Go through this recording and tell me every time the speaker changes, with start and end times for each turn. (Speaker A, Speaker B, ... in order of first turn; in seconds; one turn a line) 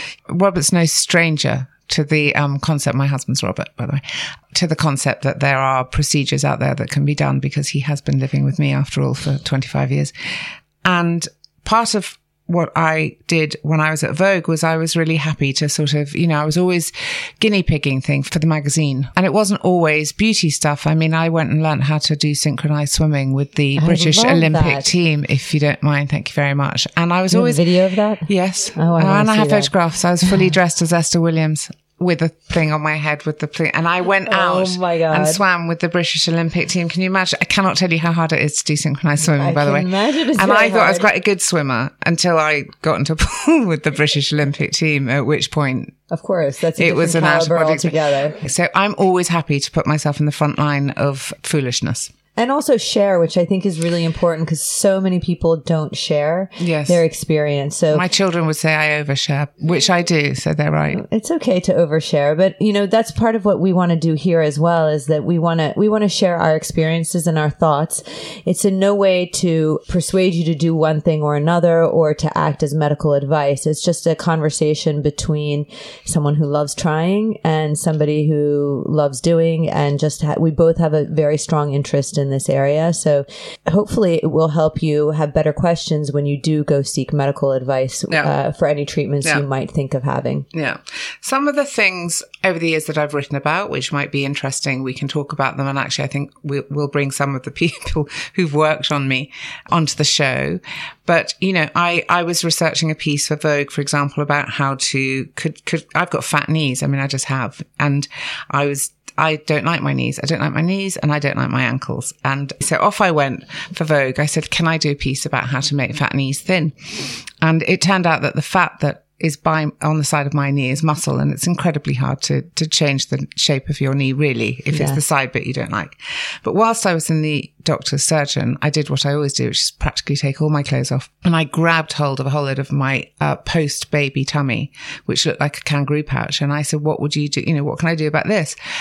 Speaker A: 0.3-10.1
Speaker A: 10.8-27.7
Speaker B: 23.8-24.9
Speaker B: 27.3-29.7
Speaker A: 28.2-45.9
Speaker B: 34.3-35.4
Speaker B: 39.2-41.1
Speaker B: 46.1-48.4
Speaker A: 46.8-52.1
Speaker B: 52.4-58.0
Speaker A: 56.6-57.0
Speaker A: 57.9-61.0
Speaker B: 60.9-90.5
Speaker A: 90.5-138.6
Speaker B: 124.7-125.0